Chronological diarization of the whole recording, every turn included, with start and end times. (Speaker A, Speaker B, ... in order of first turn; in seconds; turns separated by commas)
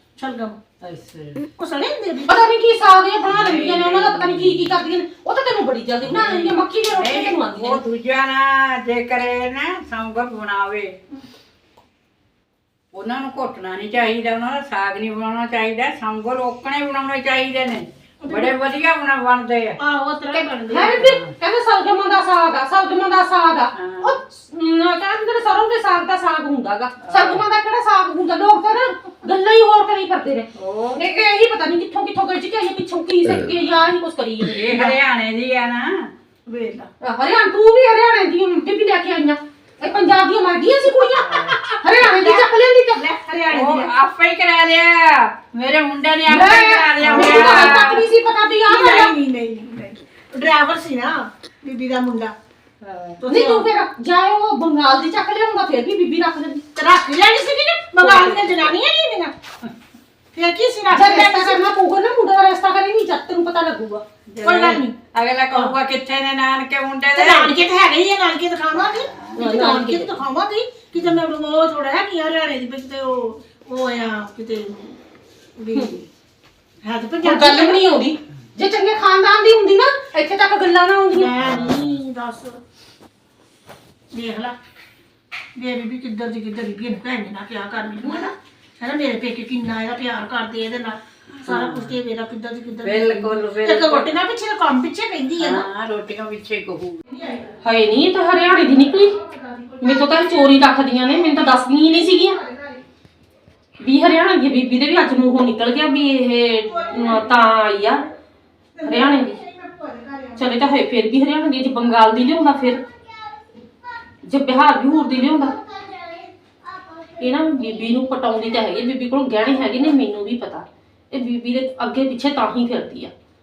Speaker A: 0.2-0.6, Speaker B: 0.8-1.4, Speaker A: 1.6-2.4, Speaker C: 2.3-7.8, Speaker B: 3.2-4.8, Speaker B: 6.0-11.0, Speaker B: 12.9-19.8, Speaker A: 18.2-18.5, Speaker A: 19.8-21.1, Speaker C: 20.3-34.6, Speaker B: 20.9-21.3, Speaker B: 23.7-24.1, Speaker B: 27.0-27.4, Speaker B: 30.5-31.1, Speaker B: 34.5-36.1, Speaker A: 34.7-35.0, Speaker A: 36.5-36.9, Speaker C: 37.0-43.0, Speaker A: 41.4-43.9, Speaker B: 43.5-48.0, Speaker C: 46.3-49.1, Speaker A: 47.0-47.9, Speaker A: 48.7-52.3, Speaker B: 52.8-53.2, Speaker A: 53.2-53.7, Speaker C: 53.3-56.6, Speaker A: 56.8-59.3, Speaker B: 58.0-58.7, Speaker A: 60.3-61.6, Speaker C: 60.9-64.0, Speaker B: 64.3-67.5, Speaker A: 64.4-64.9, Speaker A: 65.5-65.8, Speaker A: 67.1-74.9, Speaker B: 68.7-69.4, Speaker C: 69.4-70.1, Speaker A: 75.6-76.0, Speaker A: 76.8-77.8, Speaker C: 77.2-81.3, Speaker A: 81.1-82.6, Speaker B: 81.4-81.8, Speaker A: 84.1-84.5, Speaker A: 85.5-95.7, Speaker B: 91.4-91.9, Speaker B: 92.8-94.1, Speaker B: 95.4-97.0, Speaker A: 97.1-97.5, Speaker C: 97.6-99.2, Speaker A: 99.1-102.8, Speaker C: 99.8-102.4, Speaker C: 103.8-108.0, Speaker A: 106.7-107.3, Speaker A: 108.7-110.7, Speaker C: 108.8-109.3, Speaker C: 110.4-112.8, Speaker C: 114.2-115.5, Speaker A: 115.2-117.6, Speaker C: 117.2-123.1